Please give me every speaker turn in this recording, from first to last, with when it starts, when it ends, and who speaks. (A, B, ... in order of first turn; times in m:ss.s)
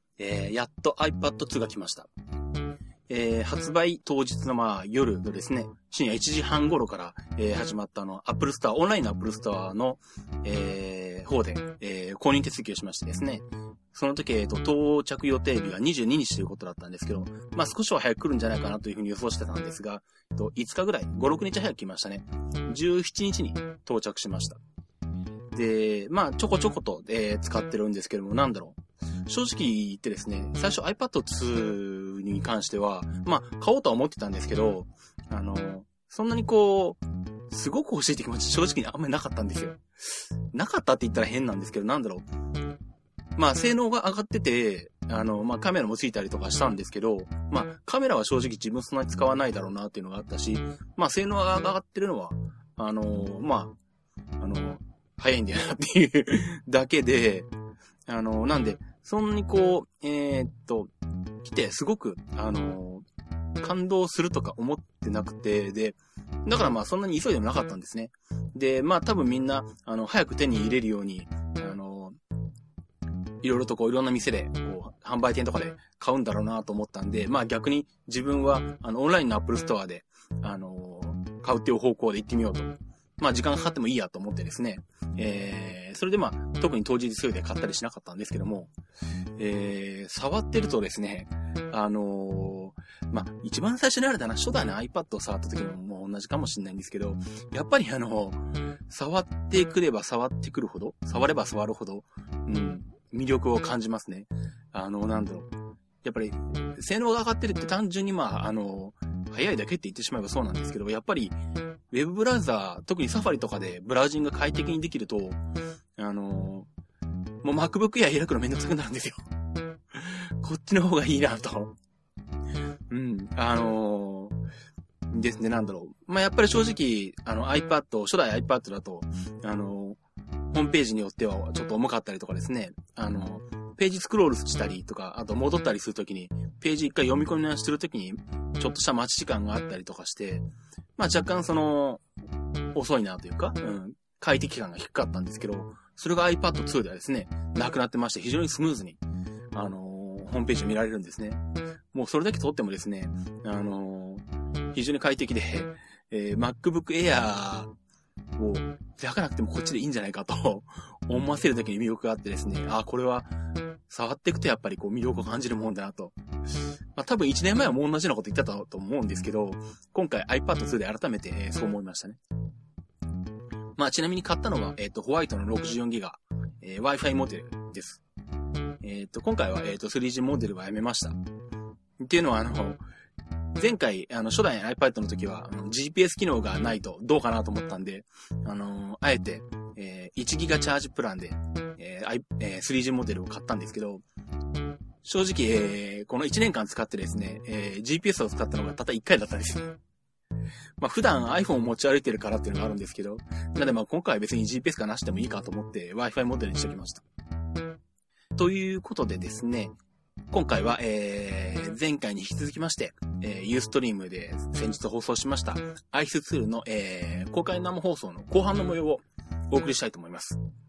0:00.2-0:02.1 A
0:03.1-0:24.6 A
0:25.5-0:42.3 A
0:43.4-0:53.8 A
0:54.4-0:57.5 A
0:58.1-1:00.9 A
1:01.4-1:03.1 A
1:03.6-1:12.2 A
1:13.4-1:28.7 A
1:29.4-1:51.4 A
1:51.9-1:55.4 A
1:56.0-1:56.7 A
1:57.4-1:59.2 A
1:59.9-2:01.8 A
2:02.9-2:04.4 A
2:05.1-2:10.0 A
2:10.5-2:22.0 A
2:22.7-2:29.0 A
2:29.5-2:37.7 A
2:38.4-2:43.4 A
2:43.9-2:46.2 A
2:47.0-2:52.2 A
2:53.8-2:58.0 A
2:58.8-3:01.2 A
3:02.0-3:02.8 A
3:03.6-3:14.0 A
3:15.0-3:19.8 A
3:20.8-3:27.0 A
3:28.4-3:29.8 A
3:30.3-3:40.4 A